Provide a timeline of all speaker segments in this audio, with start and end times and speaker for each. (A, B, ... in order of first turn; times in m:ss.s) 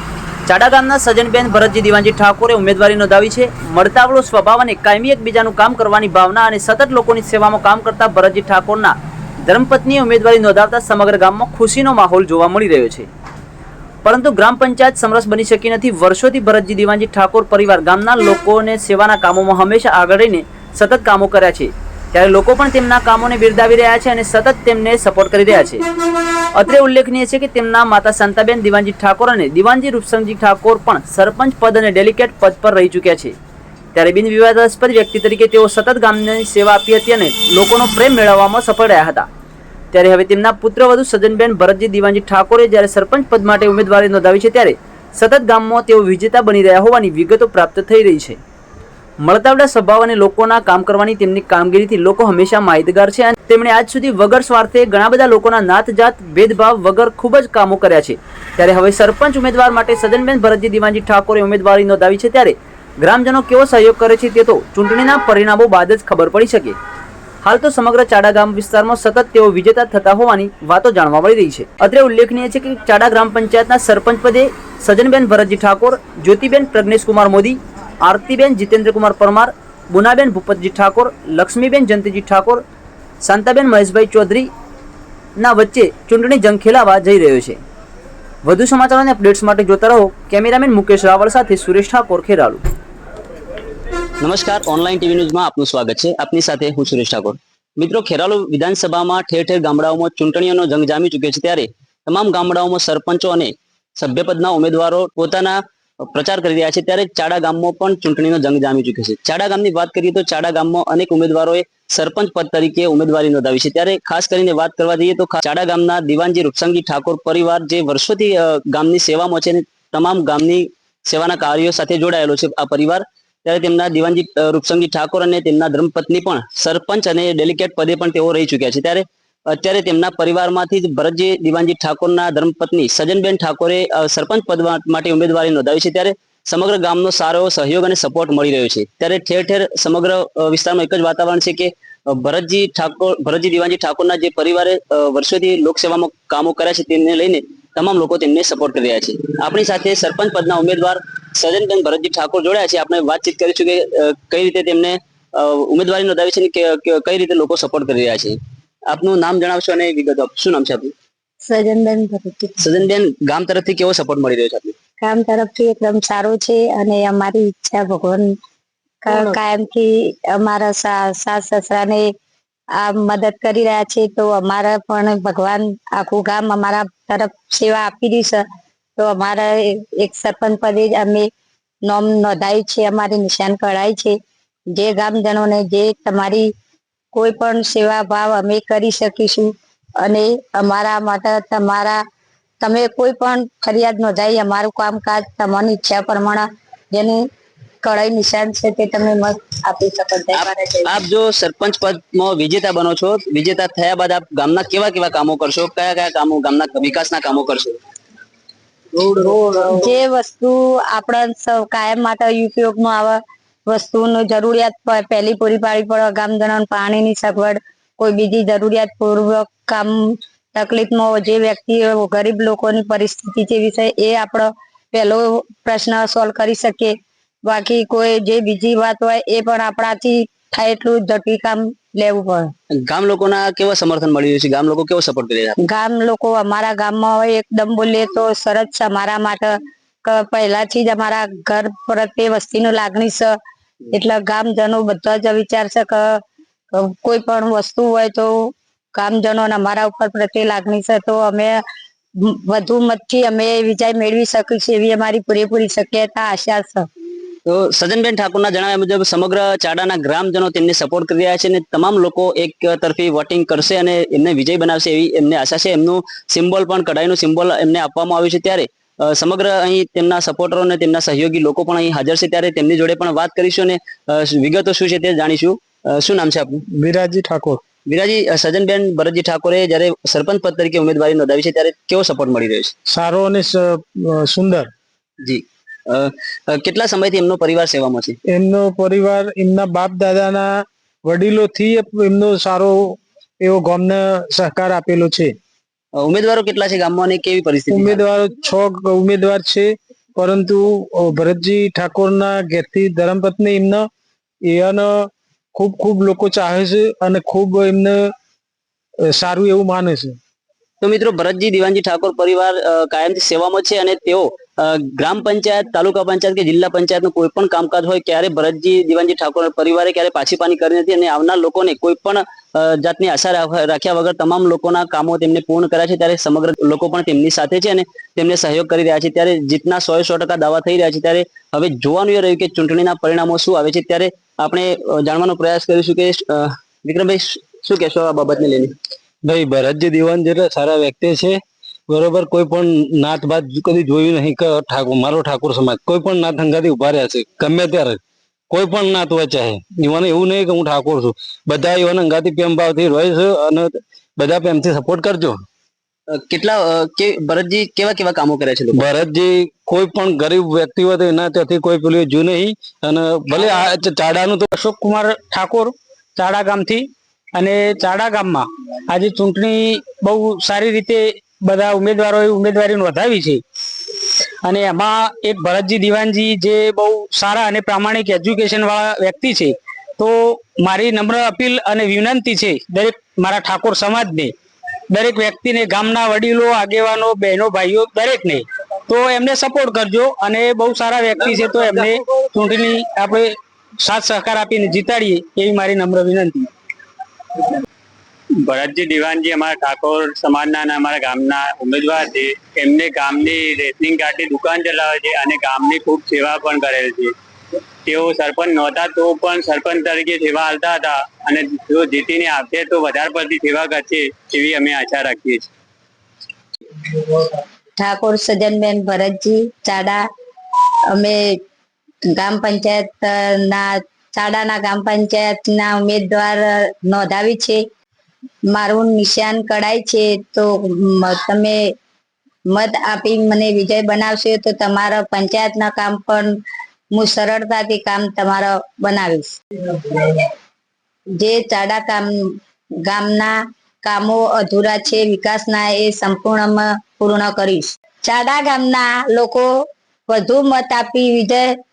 0:00.5-0:13.1 A
0:14.0-0:25.8 A
0:26.5-0:33.3 A
0:33.9-0:39.3 A
0:39.9-0:48.4 A
0:49.2-1:06.8 A
1:07.4-1:22.6 A
1:23.2-1:24.5 A
1:25.4-1:27.6 A
1:28.4-1:32.6 A
1:34.2-2:38.4 B
2:38.9-2:40.9 B
2:41.4-2:42.6 C
2:42.6-2:44.7 B
2:45.0-2:48.3 C
2:49.0-2:52.1 C
2:52.8-2:58.4 C
2:59.0-3:01.3 C
3:01.8-3:04.2 C
3:04.7-3:06.5 C
3:07.1-3:12.0 C
3:12.6-3:17.2 C
3:17.8-3:20.9 C
3:20.4-3:27.8 B
3:29.5-3:46.9 C
3:47.4-3:52.5 C
3:52.8-3:55.6 B
3:55.6-4:03.3 C
4:03.9-4:06.2 C
4:06.7-4:11.6 C
4:12.3-4:16.9 C
4:17.5-4:36.6 B
4:36.7-4:37.6 D
4:37.9-4:42.7 B
4:42.9-4:44.7 D
4:45.2-4:48.2 B
4:48.3-4:55.3 D
4:56.0-4:58.0 B
4:57.7-5:03.8 D
5:04.4-5:08.1 D
5:09.1-5:10.2 D
5:10.8-5:38.7 B
5:39.2-5:48.0 E
5:48.5-5:55.4 E
5:56.1-5:58.8 B
5:58.7-6:04.5 E
6:04.5-6:13.4 F
6:14.4-6:24.3 F
6:24.9-6:36.5 F
6:38.4-6:47.1 G
6:47.8-6:55.5 G
6:57.8-7:00.0 C
7:00.9-7:01.4 C
7:02.1-7:07.6 C
7:08.5-7:11.7 C
7:12.5-7:16.4 C
7:16.9-7:20.2 C
7:21.2-7:22.3 C
7:22.8-7:29.5 C
7:30.1-7:31.5 C